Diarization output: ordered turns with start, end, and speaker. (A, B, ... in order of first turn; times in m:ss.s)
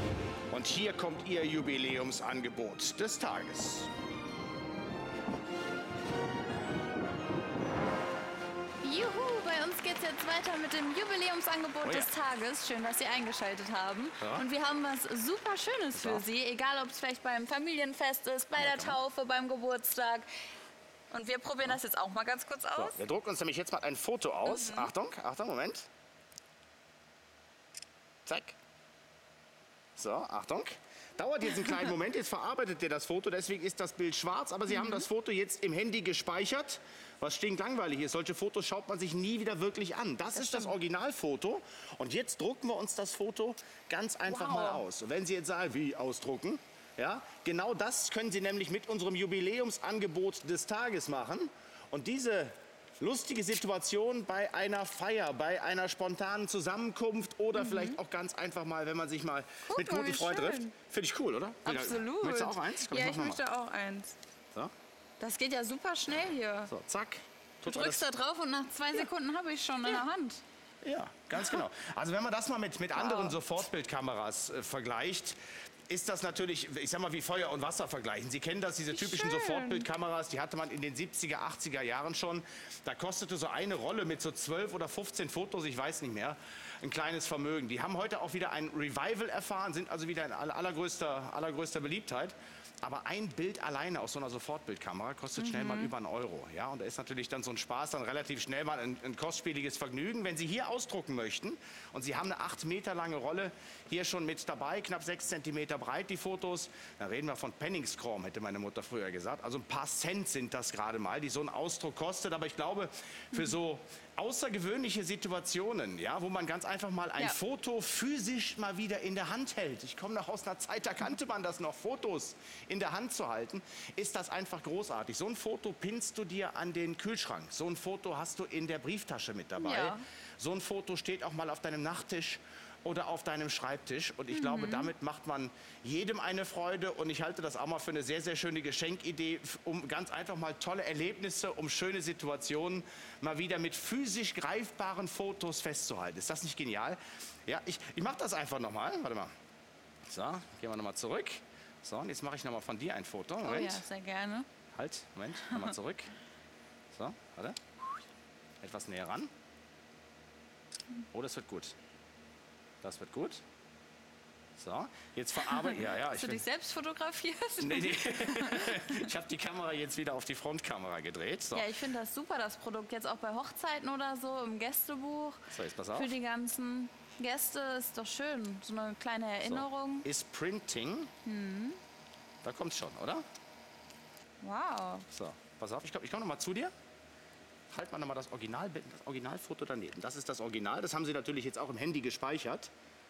0:00.5-0:03.9 A
0:08.8-0:20.3 B
0:14.2-0:14.4 A
0:15.9-0:16.2 A
0:18.5-0:19.0 A
0:21.1-0:23.0 B
0:22.7-0:25.9 A
0:24.4-0:24.9 B
0:28.2-0:28.6 A
0:30.0-1:03.4 A
0:34.7-0:35.0 B
0:40.3-0:40.7 B
0:44.3-0:44.8 B
0:57.5-0:58.0 B
0:59.6-1:00.7 B
1:01.6-1:04.2 B
1:05.2-1:06.7 B
1:06.7-1:08.1 A
1:07.6-1:10.4 B
1:10.8-1:15.4 A
1:11.3-1:11.6 B
1:12.9-1:13.4 B
1:15.9-2:29.3 A
1:18.9-1:19.9 B
1:35.4-1:35.9 B
2:09.6-2:10.0 B
2:14.3-2:14.9 B
2:30.1-2:33.8 A
2:33.4-2:34.5 B
2:34.7-2:36.1 A
2:35.5-2:35.7 B
2:36.9-2:37.6 A
2:38.6-2:39.3 A
2:41.1-2:41.7 A
2:42.8-2:43.4 A
2:44.6-2:46.4 A
2:45.4-2:49.1 B
2:47.6-2:51.7 A
2:51.5-3:00.1 B
2:55.5-2:56.1 A
2:59.4-3:01.1 A
3:01.2-3:01.8 B
3:02.4-3:03.2 A
3:04.4-3:05.1 B
3:05.1-3:06.7 A
3:07.7-3:12.7 A